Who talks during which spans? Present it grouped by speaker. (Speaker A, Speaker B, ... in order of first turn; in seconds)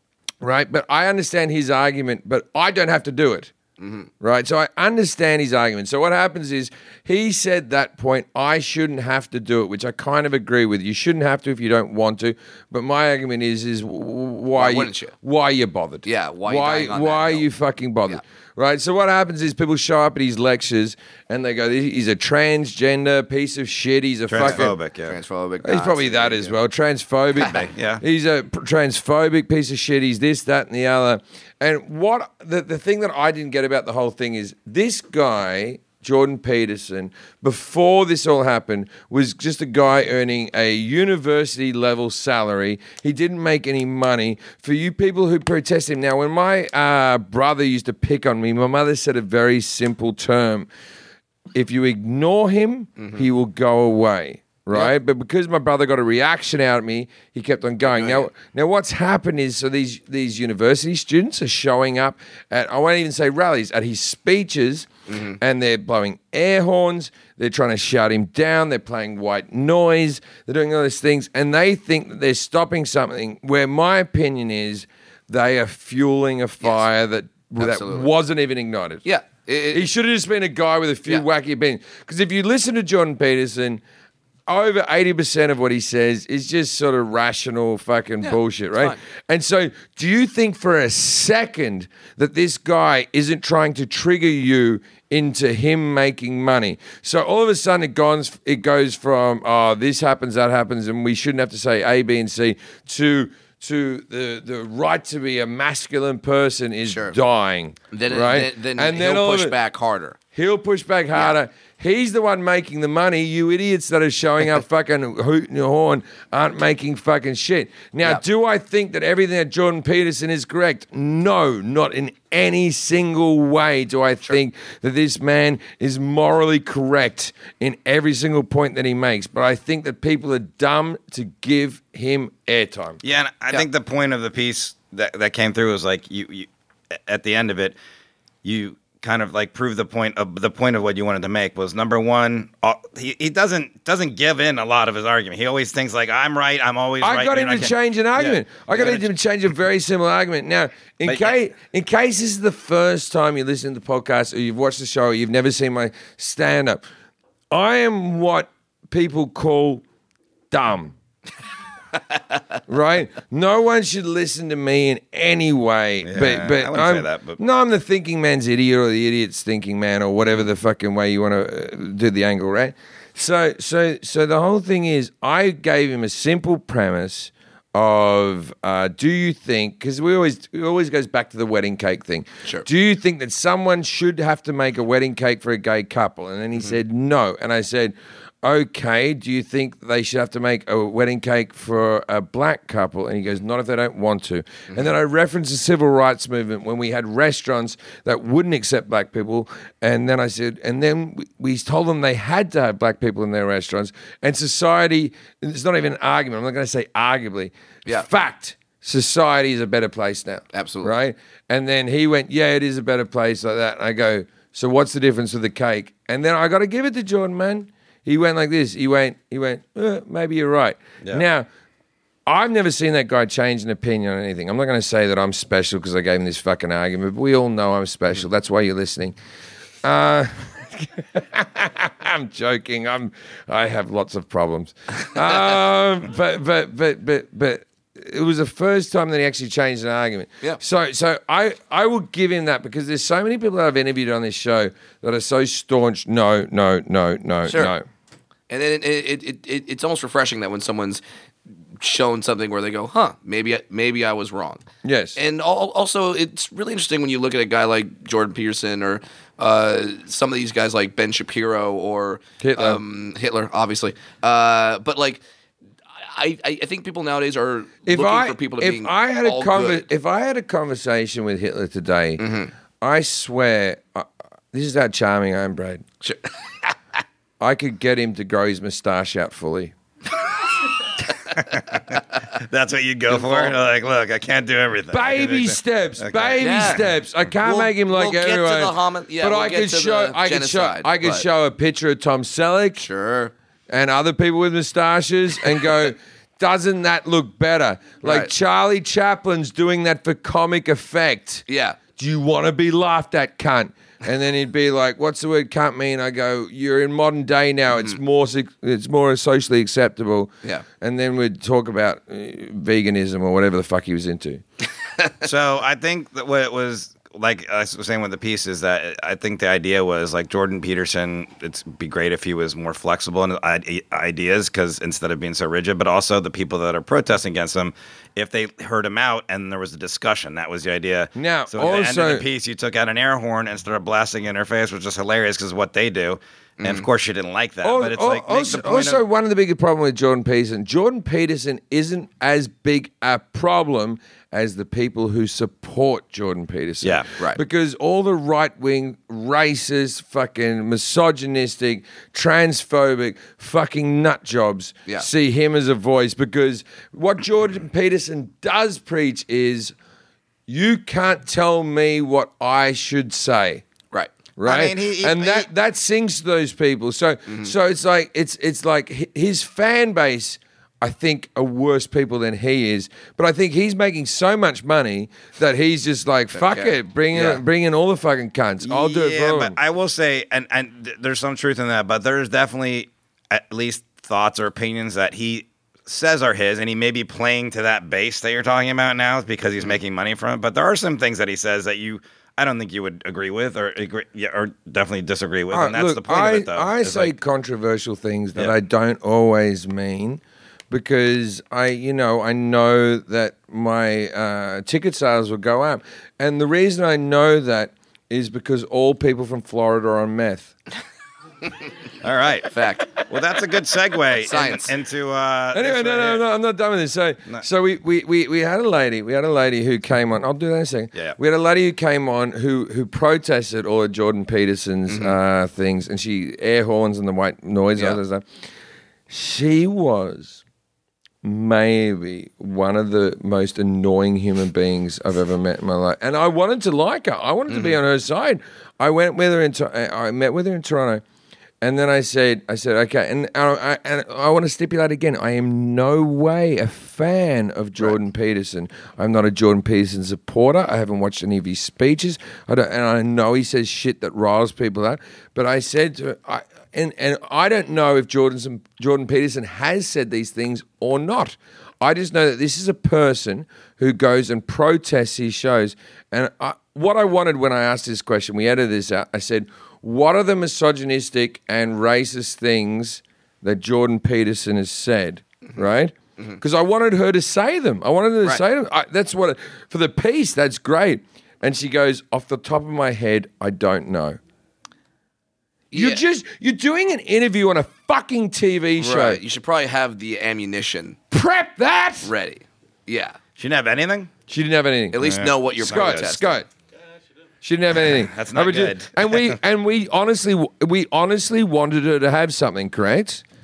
Speaker A: 0.4-3.5, 4.2-24.7, 25.6-50.7, 51.5-64.9, 65.4-79.0, 79.7-83.8, 84.5-109.5, 110.3-133.0, 147.0-156.8, 157.5-159.8, 160.5-160.9, 162.7-221.5, 222.3-229.2, 229.8-247.8, 254.8-255.2, 262.4-262.8, 267.9-272.2, 272.8-275.8, 277.4-279.7, 284.9-292.9, 293.7-301.4, 302.0-314.4, 331.1-332.2, 337.6-359.7, 360.5-363.6, 364.4-379.6, 395.5-410.5, 415.5-428.2, 429.1-430.4, 431.2-441.0, 441.6-484.2, 485.7-489.2, 491.1-492.1, 494.3-496.5, 497.4-503.2
Speaker B: 3.8-4.1, 14.5-15.1, 16.0-17.5, 24.4-26.6, 53.0-53.2, 57.8-58.3, 65.1-65.4, 77.6-78.1, 79.0-79.8, 88.2-89.0, 106.8-107.2, 107.9-110.2, 210.5-210.9, 247.5-247.7, 248.5-251.0, 251.8-254.6, 255.2-265.2, 266.0-269.8, 272.2-272.5, 283.1-283.6, 286.4-286.8, 287.4-291.2, 292.8-293.3, 298.0-298.3, 301.5-301.8, 336.6-336.9, 367.3-367.5, 376.3-377.4, 412.5-412.9, 414.2-414.7, 424.9-425.1, 437.5-437.8, 485.7-486.0, 488.8-491.0, 492.0-493.2, 494.9-496.4
Speaker C: 24.3-25.1, 27.5-28.0, 133.0-137.8, 138.4-149.0, 151.0-151.3, 166.0-167.4, 281.3-286.7, 315.2-339.0, 346.8-347.1, 364.4-365.5, 378.6-397.1, 412.0-416.2, 493.4-494.1, 495.0-496.1, 497.9-499.3